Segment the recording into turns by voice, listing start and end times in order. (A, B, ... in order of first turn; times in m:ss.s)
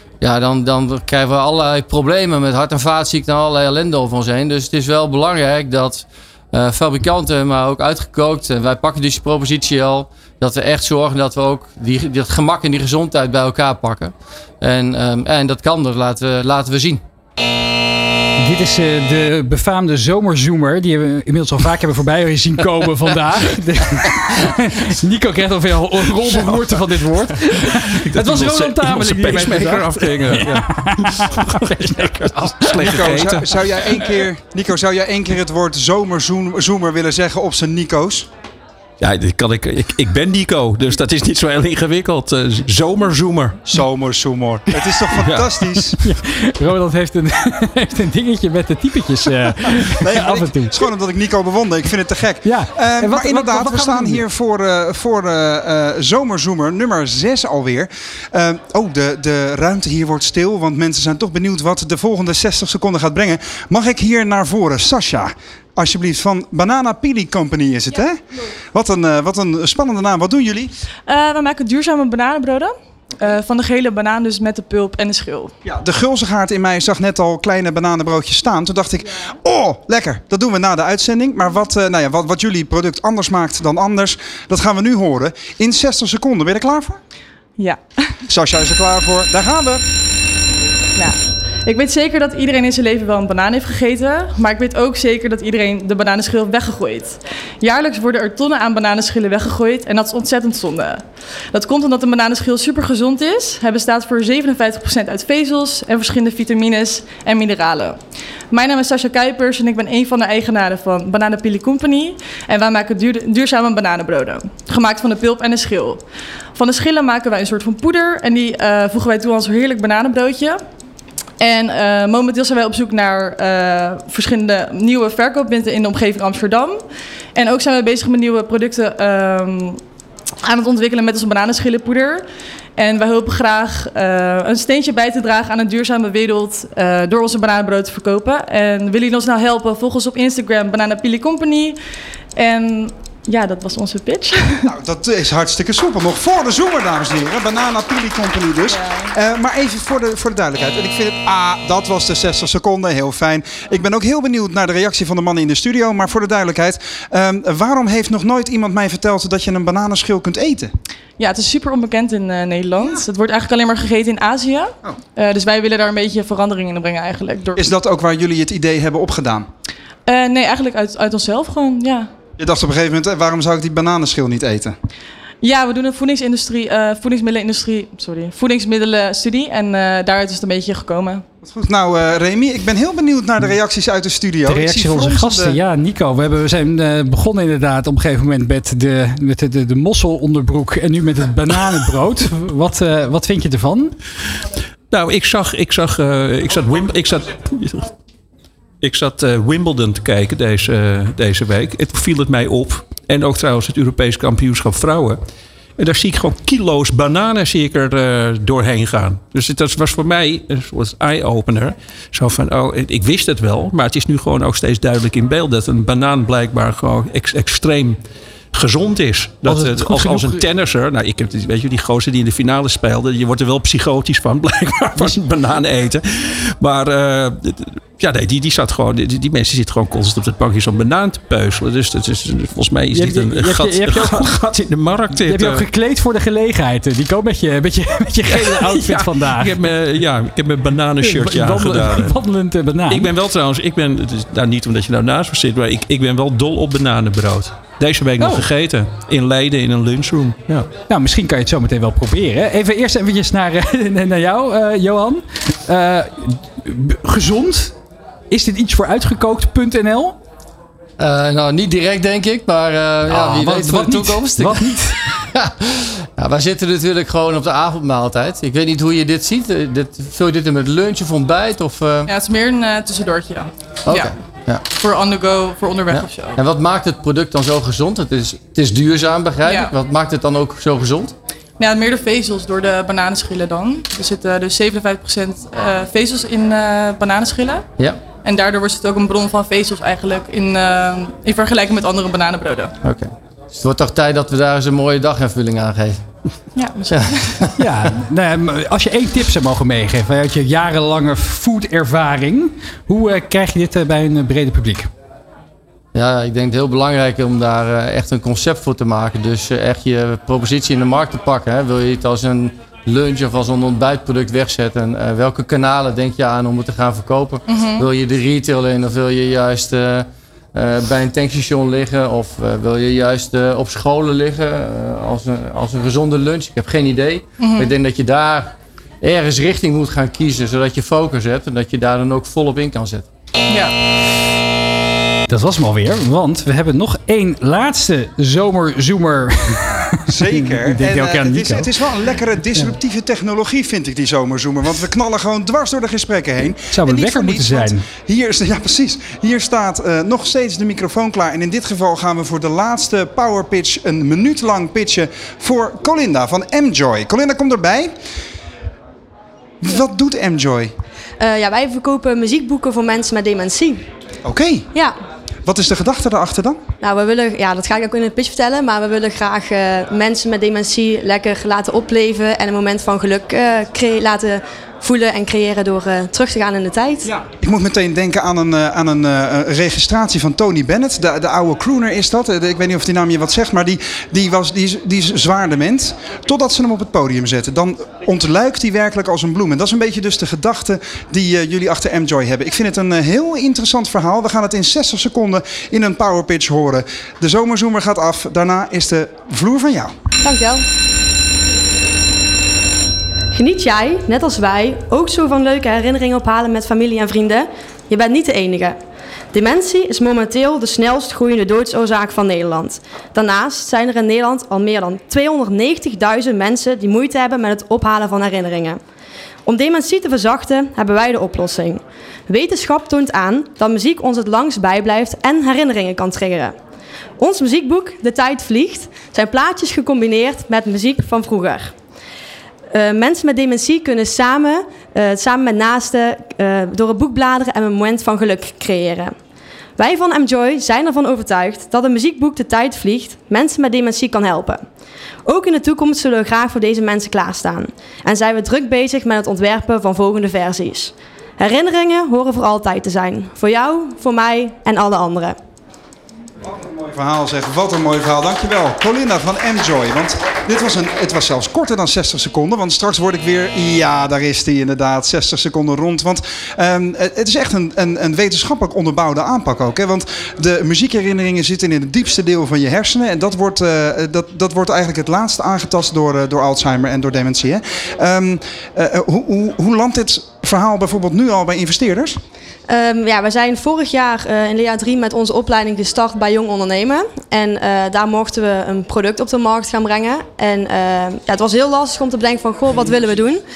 0:00.2-0:17.0 A
0:18.4-0:33.0 B
0:27.6-0:33.5 C
0:32.7-0:38.3 D
0:39.0-0:43.7 C
0:43.7-0:46.0 D
0:45.1-0:45.6 C
0:46.0-0:50.9 B
0:50.0-1:10.7 D
0:52.4-0:54.2 B
1:11.1-1:15.5 E
1:15.6-1:27.0 D
1:28.3-1:29.8 D
1:31.0-1:48.0 E
1:48.5-1:56.0 E
1:56.5-2:00.6 E
2:01.4-2:06.8 E
2:07.4-2:09.8 E
2:10.4-2:12.2 E
2:12.8-2:21.8 E
2:22.4-2:24.7 E
2:24.6-2:40.7 D
2:28.7-2:29.1 E
2:41.2-2:47.7 E
2:47.6-2:49.5 D
2:50.1-2:52.1 E
2:52.4-2:54.8 D
2:55.4-3:01.2 E
3:01.4-3:05.6 D
3:04.4-3:13.9 B
3:14.9-3:17.9 C
3:18.8-3:25.2 C
3:25.8-3:38.0 C
3:38.5-3:55.6 C
3:39.4-3:40.4 B
3:52.9-3:54.4 B
3:55.2-3:59.6 B
3:58.3-4:02.2 C
4:01.0-4:03.1 B
4:02.9-4:10.7 C
4:08.2-4:08.5 B
4:10.9-4:17.7 B
4:18.3-4:20.2 B
4:21.0-4:32.1 A
4:23.0-4:25.0 B
4:32.1-4:36.4 E
4:33.9-4:34.6 A
4:35.9-4:41.1 A
4:39.4-4:39.7 E
4:41.6-4:47.7 E
4:48.2-4:52.7 E
4:52.8-4:56.0 A
4:56.6-4:57.5 E
4:56.9-4:57.5 A
4:57.6-5:04.9 B
5:05.9-5:33.1 A
5:17.5-5:17.8 E
5:27.4-5:27.7 E
5:33.5-5:33.7 E
5:35.3-5:41.7 B
5:40.1-5:57.9 D
5:46.7-5:47.8 B
5:59.6-6:00.7 D
6:01.2-6:03.8 F
6:04.2-6:04.7 D
6:05.4-6:06.6 D
6:06.8-6:17.1 F
6:17.4-6:39.9 D
6:40.2-6:40.6 F
6:43.3-6:48.8 F
6:49.3-6:58.8 F
6:59.4-7:06.5 F
7:07.2-7:11.7 F
7:12.7-7:19.1 F
7:19.8-7:24.6 F
7:25.2-7:35.4 F
7:36.4-8:02.2 D
8:02.7-8:13.4 F